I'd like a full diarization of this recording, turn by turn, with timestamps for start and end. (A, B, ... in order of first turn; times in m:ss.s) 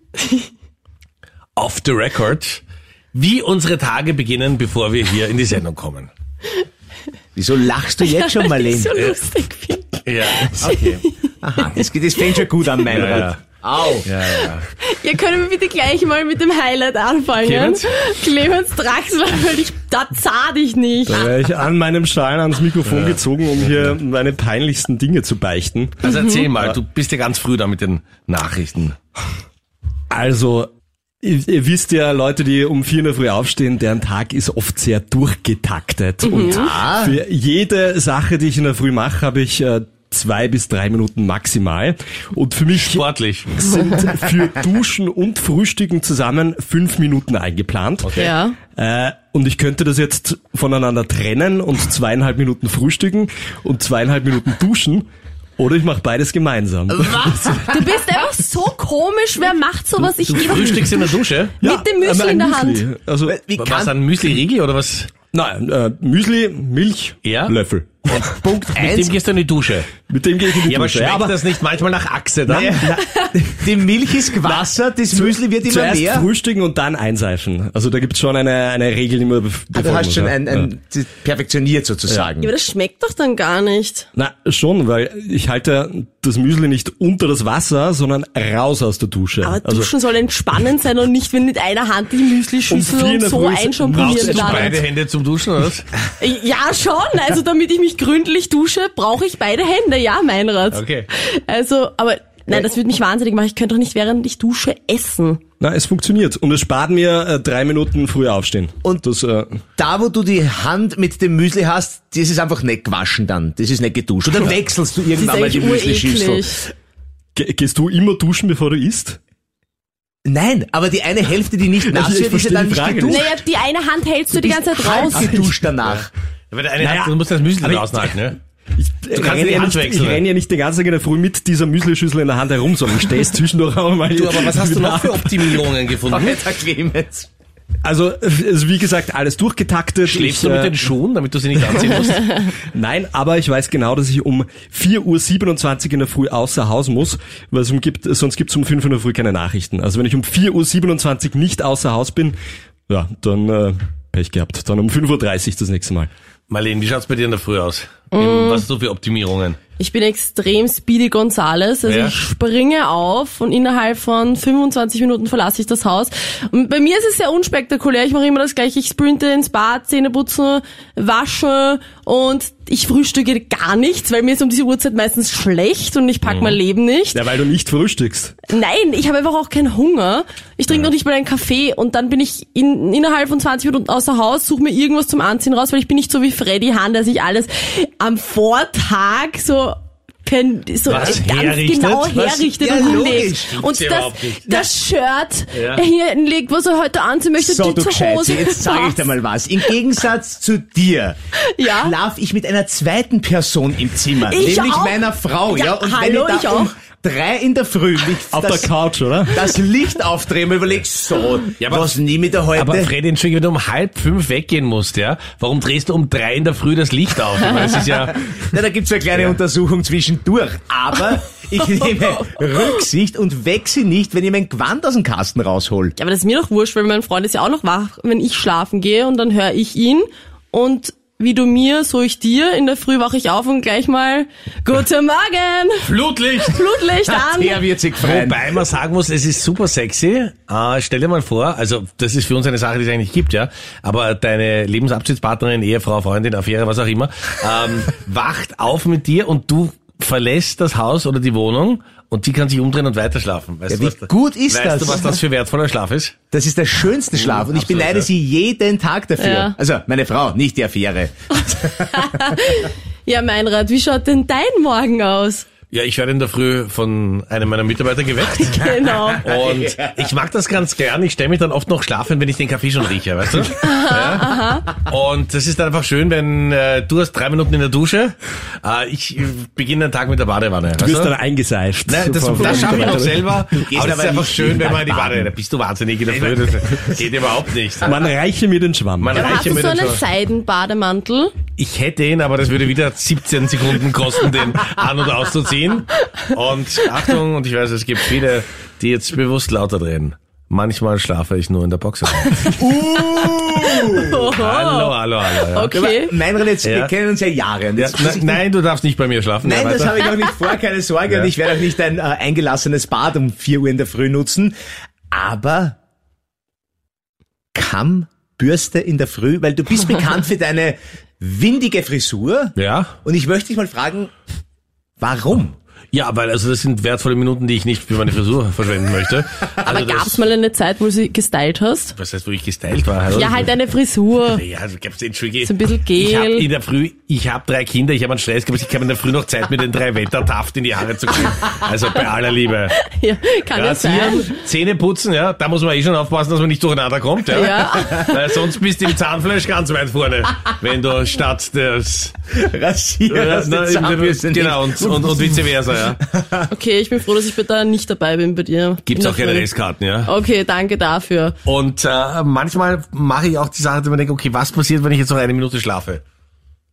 0:01.6-0:02.6 A
0:03.1-0:06.1 A
0:07.4-0:08.9 B
0:08.0-0:11.2 C
0:10.0-0:10.9 A
0:10.6-0:14.1 B
0:12.9-0:13.4 A
0:14.0-0:14.6 A
0:14.2-0:21.3 C
0:17.4-0:17.9 A
0:21.1-0:26.8 D
0:22.8-0:23.9 A
0:26.0-0:28.9 A
0:26.0-0:26.4 C
0:30.1-0:30.7 D
0:31.2-0:57.3 D
0:36.2-0:36.7 C
0:36.3-0:37.2 B
0:42.8-0:43.5 A
0:48.0-0:48.3 A
0:48.2-0:48.6 C
0:56.9-0:57.8 B
0:57.7-1:02.8 C
1:00.2-1:01.5 A
1:01.6-1:03.4 D
1:03.3-1:03.9 B
1:03.6-1:05.1 A
1:05.3-1:08.2 D
1:07.2-1:07.5 A
1:08.1-1:09.2 B
1:08.7-1:10.0 A
1:10.0-1:11.4 D
1:10.5-1:12.9 A
1:12.5-1:16.3 B
1:14.4-1:20.7 D
1:19.7-1:22.5 B
1:22.4-1:24.1 C
1:24.2-1:29.9 D
1:29.4-1:34.8 C
1:32.7-1:34.8 D
1:33.9-1:35.9 A
1:36.2-1:45.4 C
1:40.7-1:41.1 A
1:45.6-1:49.6 D
1:49.8-1:56.7 B
1:55.2-1:56.6 C
1:57.3-1:59.2 D
2:00.2-2:03.3 B
2:01.8-2:03.3 D
2:03.1-2:05.4 C
2:04.3-2:06.1 B
2:05.8-2:08.4 A
2:08.7-2:15.6 D
2:09.1-2:10.2 A
2:14.1-2:16.4 A
2:16.1-2:17.3 B
2:17.8-2:20.8 D
2:20.0-2:22.4 A
2:22.5-2:32.4 D
2:32.9-2:36.1 D
2:36.5-2:39.6 A
2:38.1-2:38.6 C
2:39.8-2:57.2 C
2:41.8-2:42.1 A
2:56.2-2:56.6 A
2:57.1-2:58.3 D
2:58.5-3:19.1 C
3:10.8-3:12.2 A
3:12.1-3:13.6 B
3:13.5-3:14.5 A
3:15.5-3:15.8 A
3:17.4-3:28.7 B
3:21.4-3:21.9 C
3:24.2-3:26.7 C
3:28.3-3:29.5 D
3:29.3-3:32.9 B
3:31.6-3:32.0 A
3:32.5-3:38.2 A
3:37.9-3:45.9 B
3:39.1-3:39.4 A
3:46.0-3:55.9 C
3:55.8-3:56.6 A
3:56.4-3:57.6 C
3:57.0-3:58.6 B
3:58.0-4:16.1 A
4:13.7-4:15.2 B
4:16.3-4:22.1 B
4:17.1-4:18.1 A
4:19.2-4:19.5 C
4:21.8-4:25.5 C
4:25.7-4:28.7 A
4:28.4-4:29.2 C
4:28.8-4:30.1 B
4:29.2-4:41.1 A
4:33.6-4:34.6 C
4:40.8-4:43.4 D
4:41.9-4:48.0 A
4:42.4-4:45.3 B
4:46.1-4:47.0 B
4:47.8-4:49.6 D
4:49.0-4:50.0 A
4:49.1-4:51.4 C
4:51.6-5:02.5 A
5:02.6-5:04.2 B
5:03.8-5:06.2 C
5:03.9-5:05.7 A
5:05.7-5:08.4 B
5:06.6-5:06.9 A
5:07.8-5:10.0 A
5:09.4-5:14.5 B
5:11.1-5:11.3 A
5:15.1-5:15.8 B
5:17.5-5:24.1 B
5:22.6-5:22.9 A
5:25.0-5:25.5 B
5:25.9-5:30.2 A
5:29.6-5:31.9 C
5:31.9-5:33.5 A
5:33.1-5:34.4 C
5:34.2-5:42.8 A
5:35.4-5:36.5 C
5:42.7-5:44.3 C
5:43.5-5:52.3 A
5:47.3-5:48.2 C
5:52.3-5:55.5 B
5:53.1-5:56.0 A
5:56.1-5:56.5 B
5:56.5-5:59.5 C
5:58.8-6:00.1 A
6:00.0-6:01.4 C
6:01.4-6:06.0 A